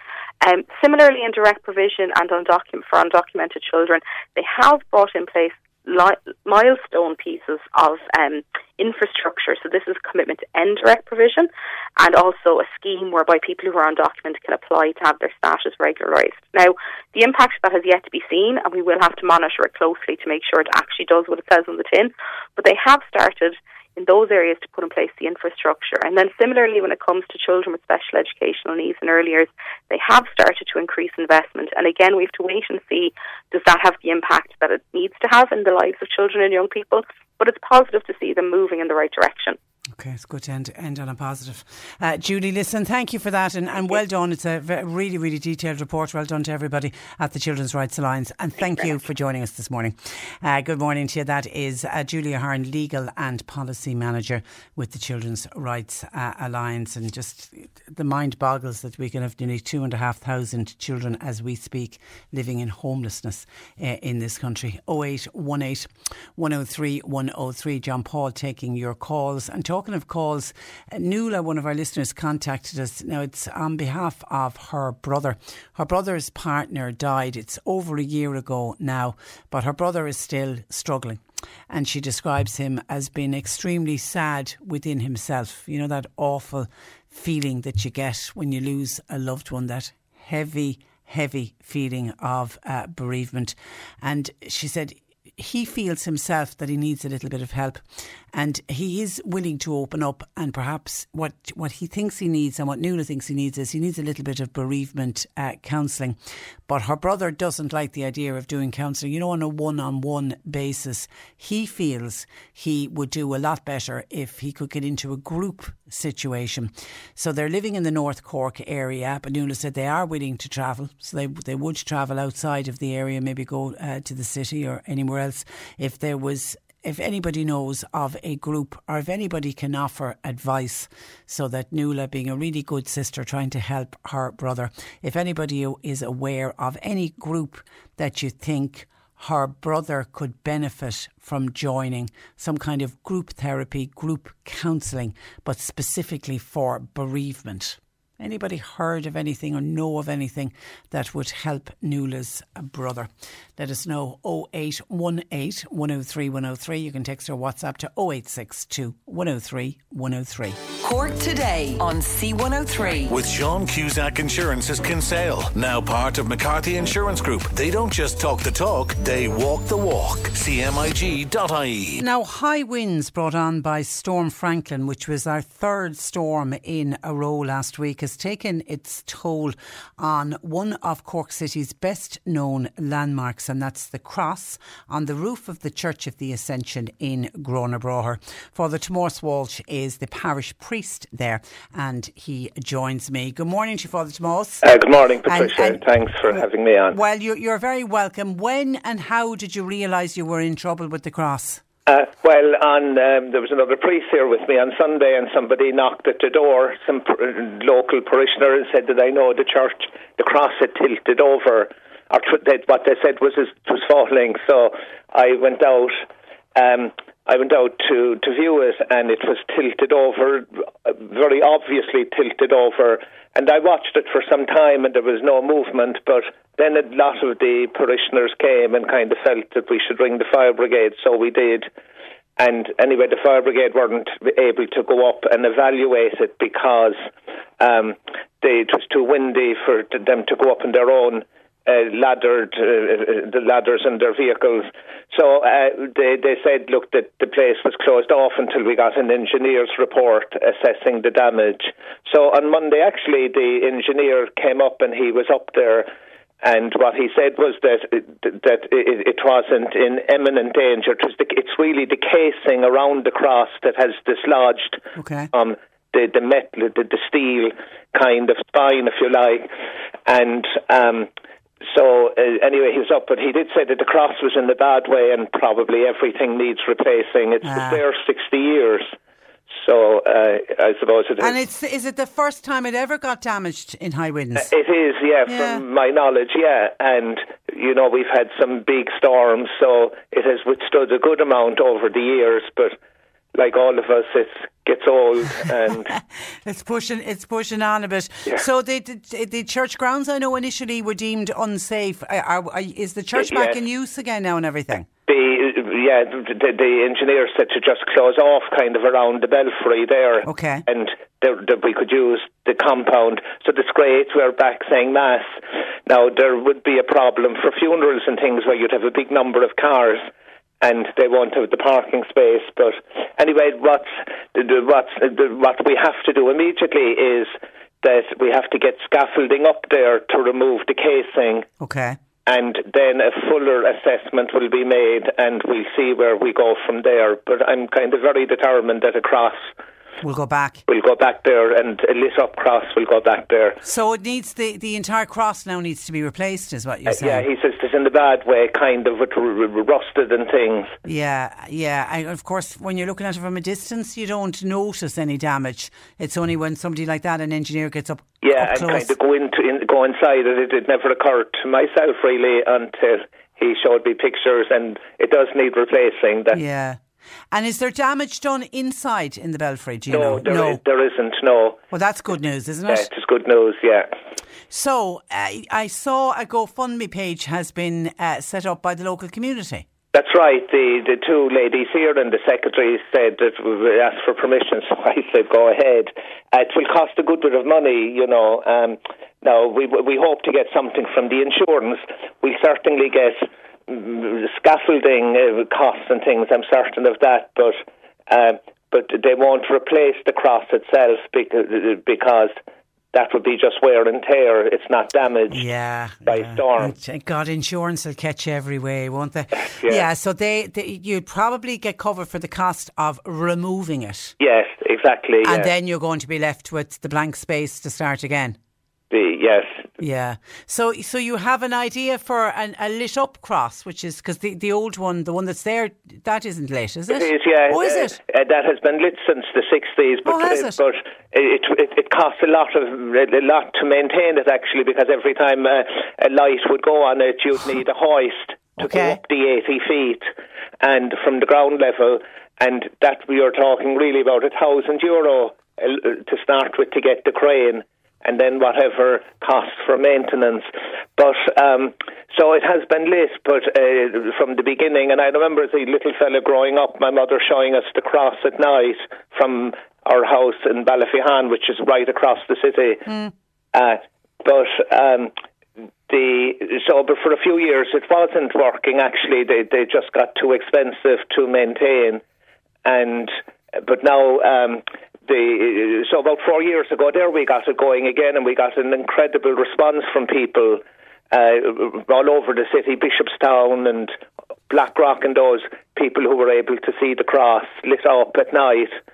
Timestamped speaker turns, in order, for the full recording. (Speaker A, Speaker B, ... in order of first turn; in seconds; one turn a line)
Speaker A: 0.4-39.6
Speaker B: 40.0-106.2
Speaker B: 106.7-160.6
Speaker C: 160.8-163.1
Speaker D: 163.1-172.0
Speaker B: 172.0-201.6
Speaker E: 194.6-197.0
Speaker E: 201.9-216.0
Speaker E: 216.6-231.7
Speaker E: 232.4-237.1
Speaker E: 237.6-255.9
Speaker E: 256.4-269.5
Speaker B: 265.0-265.3
Speaker E: 270.1-271.1
Speaker E: 271.6-278.9
Speaker B: 277.4-277.8
Speaker E: 279.6-281.4
Speaker B: 281.2-284.5
Speaker E: 284.4-292.8
Speaker B: 285.3-285.6
Speaker E: 293.4-295.9
Speaker B: 296.0-304.9
Speaker E: 303.1-303.6
Speaker E: 305.1-320.1
Speaker B: 310.2-310.6
Speaker E: 320.6-331.5
Speaker B: 331.6-332.0
Speaker E: 332.3-339.5
Speaker B: 340.0-340.6
Speaker E: 340.7-343.6
Speaker B: 343.6-347.3
Speaker E: 346.9-350.8
Speaker B: 350.9-358.9
Speaker E: 358.2-366.4
Speaker B: 366.3-366.8
Speaker B: 367.3-370.6
Speaker E: 369.9-371.6
Speaker B: 371.7-372.9
Speaker E: 372.7-373.9
Speaker B: 374.5-379.7
Speaker E: 379.9-402.4
Speaker E: 402.9-405.5
Speaker B: 405.3-414.1
Speaker E: 406.1-406.7
Speaker E: 409.5-409.9
Speaker E: 414.2-415.5
Speaker B: 415.2-418.4
Speaker E: 418.9-419.7
Speaker B: 419.8-428.0
Speaker E: 426.9-440.1
Speaker B: 430.1-430.6
Speaker B: 438.6-439.0
Speaker E: 440.6-462.9
Speaker B: 462.9-463.1
Speaker E: 463.5-465.1
Speaker E: 465.9-472.0
Speaker E: 472.6-484.0
Speaker E: 484.5-488.8